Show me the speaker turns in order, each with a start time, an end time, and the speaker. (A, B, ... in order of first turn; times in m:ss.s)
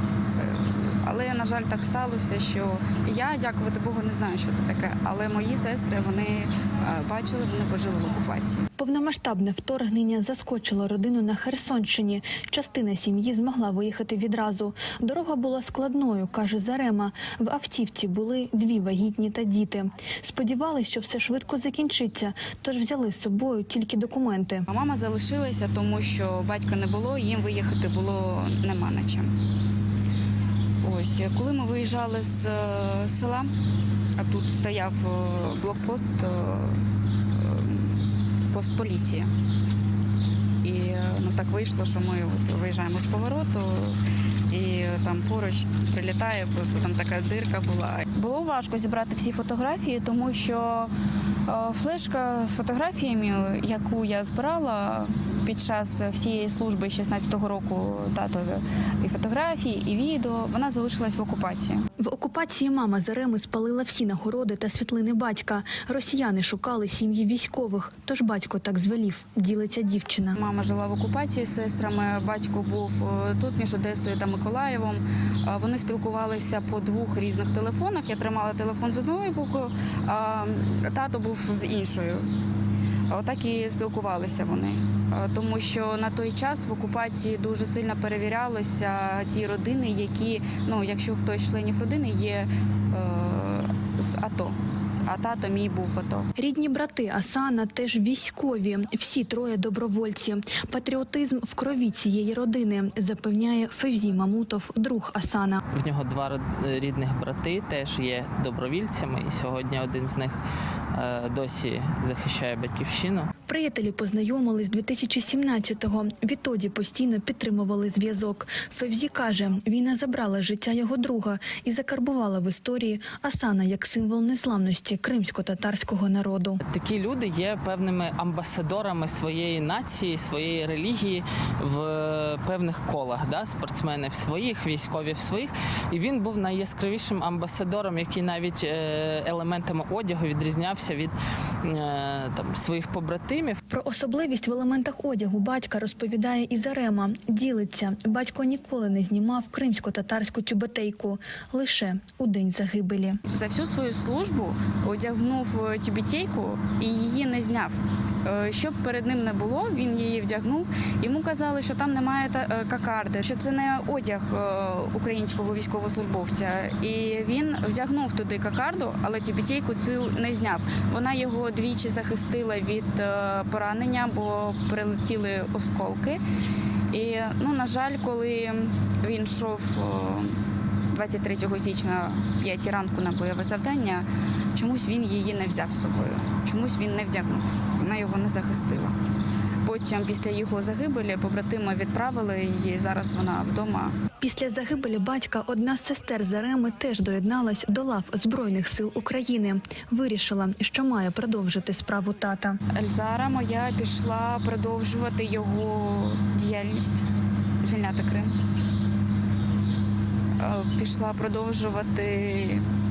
0:00.4-0:08.6 A
0:08.8-0:24.7 B
0:24.7-0:29.3 A
0:30.8-0:33.5 A
0:34.2-0:36.8 A
0:37.3-0:39.3 A
0:40.6-0:44.0 A
0:44.5-0:50.9 A
0:51.5-1:01.8 A
1:02.0-1:10.4 B
1:10.3-1:22.3 A
1:23.1-1:36.3 A
1:36.4-1:45.6 B
1:45.7-1:50.4 C
1:50.9-1:53.3 C
1:53.5-2:06.6 B
2:06.7-2:21.1 C
2:21.6-2:23.6 C
2:23.7-2:33.2 B
2:33.3-2:56.2 A
2:56.9-3:00.4 A
3:00.9-3:09.0 A
3:09.6-3:14.0 A
3:14.2-3:22.6 B
3:22.7-3:27.0 A
3:27.6-3:28.3 A
3:30.4-3:32.6 A